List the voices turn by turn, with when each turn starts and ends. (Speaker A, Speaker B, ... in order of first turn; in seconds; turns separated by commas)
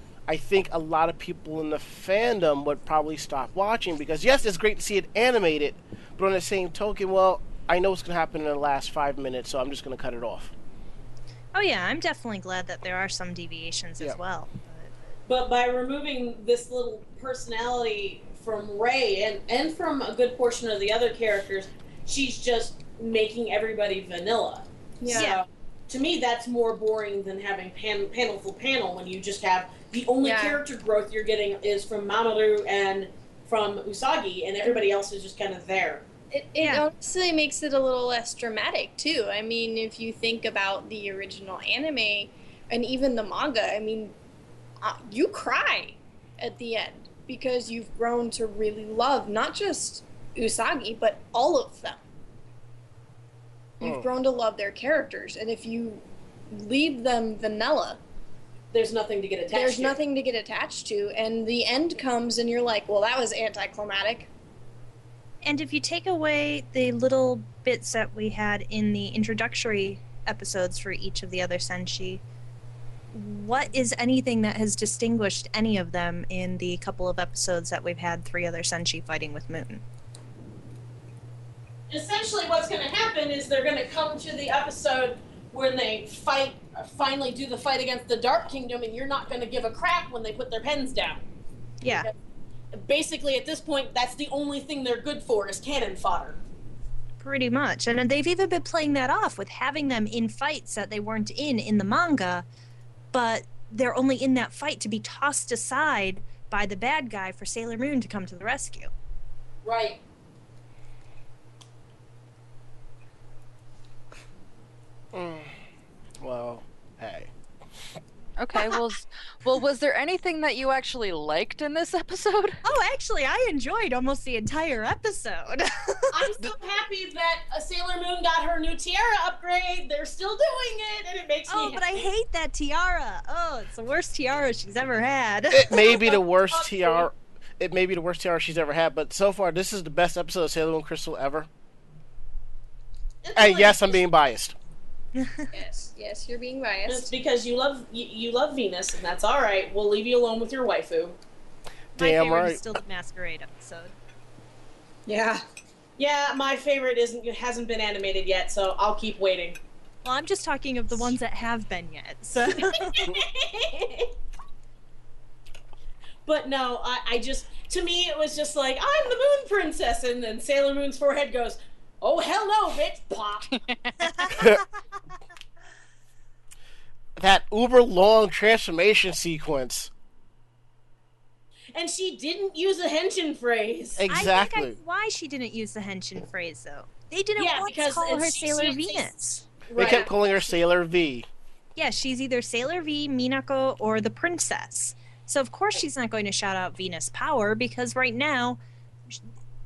Speaker A: 0.3-10.5, Speaker B: 11.5-15.1, Speaker C: 15.3-36.0, Speaker D: 25.0-25.3, Speaker B: 25.1-25.4, Speaker D: 30.2-30.6, Speaker D: 36.3-44.1, Speaker B: 36.6-36.9, Speaker D: 44.8-52.0, Speaker D: 53.8-58.0, Speaker A: 53.8-54.1, Speaker C: 58.7-60.0, Speaker D: 59.5-64.3, Speaker B: 65.4-72.2, Speaker B: 73.1-79.8, Speaker C: 81.9-91.2, Speaker B: 91.8-92.1, Speaker C: 91.9-92.1, Speaker C: 92.7-96.4, Speaker B: 97.2-102.4, Speaker B: 103.1-108.9, Speaker C: 109.6-110.0, Speaker A: 115.1-115.5, Speaker A: 116.2-117.3, Speaker E: 118.4-122.6, Speaker B: 122.6-126.3, Speaker C: 126.1-132.1, Speaker B: 131.5-135.9, Speaker A: 135.5-141.5, Speaker C: 135.8-137.1, Speaker C: 143.2-144.0, Speaker A: 143.3-144.6, Speaker B: 145.2-145.5, Speaker D: 145.5-147.1, Speaker C: 146.8-151.2, Speaker B: 151.9-153.9, Speaker A: 152.0-152.6, Speaker D: 155.1-155.4, Speaker C: 156.0-159.6, Speaker B: 160.0-163.1, Speaker C: 162.6-164.1, Speaker C: 166.2-173.5, Speaker E: 173.5-174.1, Speaker B: 174.1-174.5, Speaker A: 177.2-179.9, Speaker C: 181.7-184.0, Speaker A: 184.0-184.8, Speaker B: 184.1-189.4, Speaker C: 187.4-189.1, Speaker C: 189.7-190.1, Speaker D: 189.8-190.1, Speaker A: 189.8-191.3, Speaker B: 191.8-199.2